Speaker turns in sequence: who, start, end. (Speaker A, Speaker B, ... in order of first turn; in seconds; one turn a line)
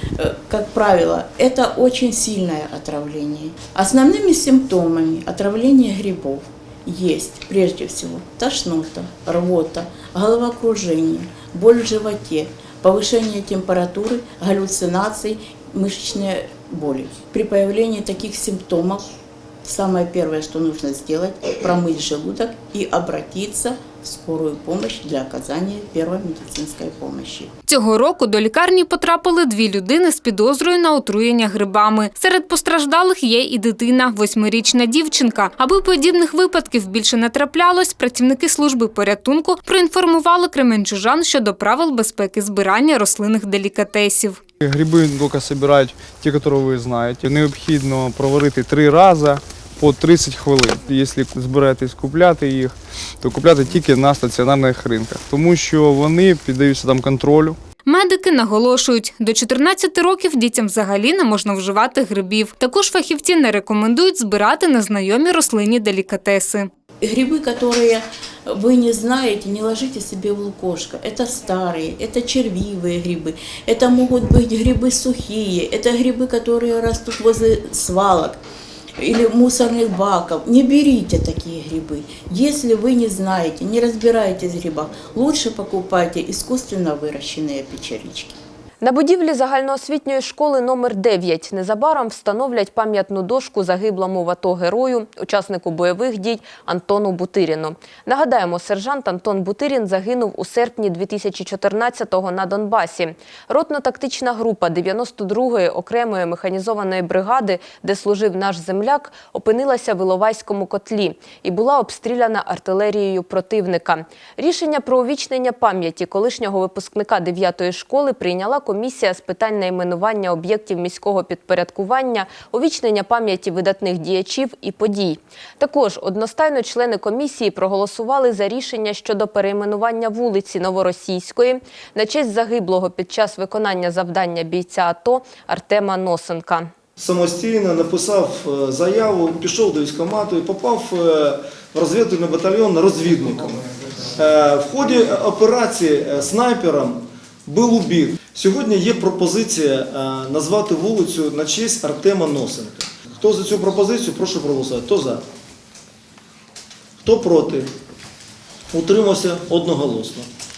Speaker A: 0.2-19.0
Speaker A: 19.6-27.5
Speaker B: 27.7-44.4
Speaker C: 44.6-57.6
Speaker B: 57.9-66.7
Speaker A: 67.0-78.4
Speaker A: 79.0-88.4
Speaker D: 88.8-136.7
Speaker E: 137.0-143.6
Speaker E: 144.2-155.2
Speaker E: 157.0-157.7
Speaker E: 158.7-160.3